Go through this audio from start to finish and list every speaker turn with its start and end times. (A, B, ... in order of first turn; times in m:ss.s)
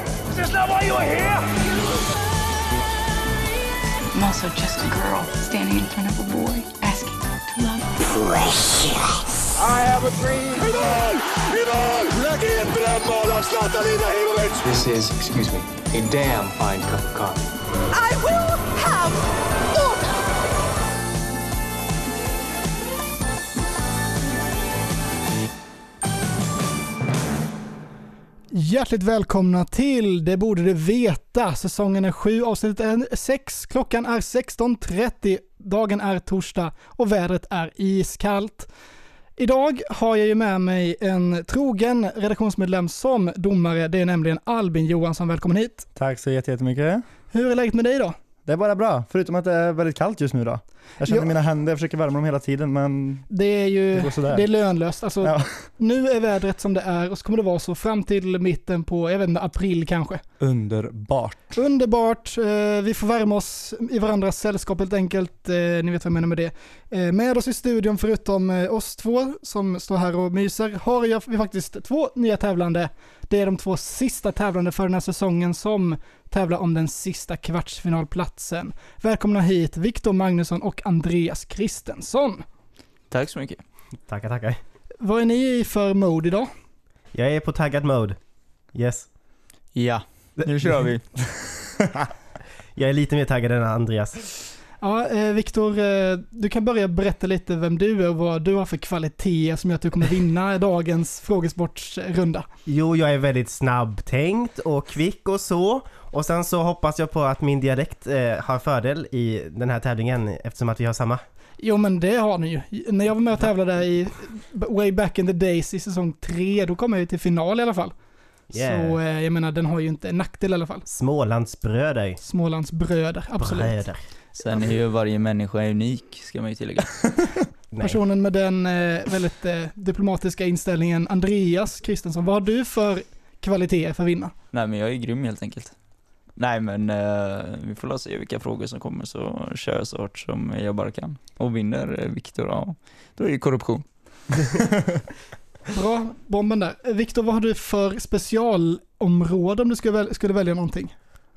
0:00.4-0:01.4 A
0:04.1-0:08.1 B
0:09.6-0:14.6 A
0:14.6-0:17.5 C
0:17.9-0:20.1 A
0:28.5-0:38.7 D
0:39.4-0:45.9 D
0:46.0-0:47.0 E
0:47.3-0:48.2 D
0:48.5-0:53.3 E
0:51.1-0:51.3 D
0:53.3-1:00.2 D
0:53.9-0:54.4 E
0:55.2-0:55.5 E
1:00.4-1:01.4 E
1:01.5-1:22.4 D
1:23.1-1:23.6 F
1:24.1-1:24.6 G
1:25.0-1:26.5 D
1:27.1-1:28.2 G
1:28.7-1:29.1 G
1:29.8-1:31.0 F
1:32.8-1:34.3 G
1:34.8-1:42.5 D
1:42.7-1:51.2 G
1:51.6-1:57.9 D
1:58.5-1:59.0 G
1:58.6-2:00.8 D
2:00.9-2:02.2 G
2:02.2-2:03.8 D
2:03.4-2:04.0 G
2:04.4-2:07.0 F
2:07.7-2:08.0 G
2:07.8-2:14.3 D
2:14.5-2:15.7 F
2:16.4-2:23.8 F
2:25.7-2:30.9 D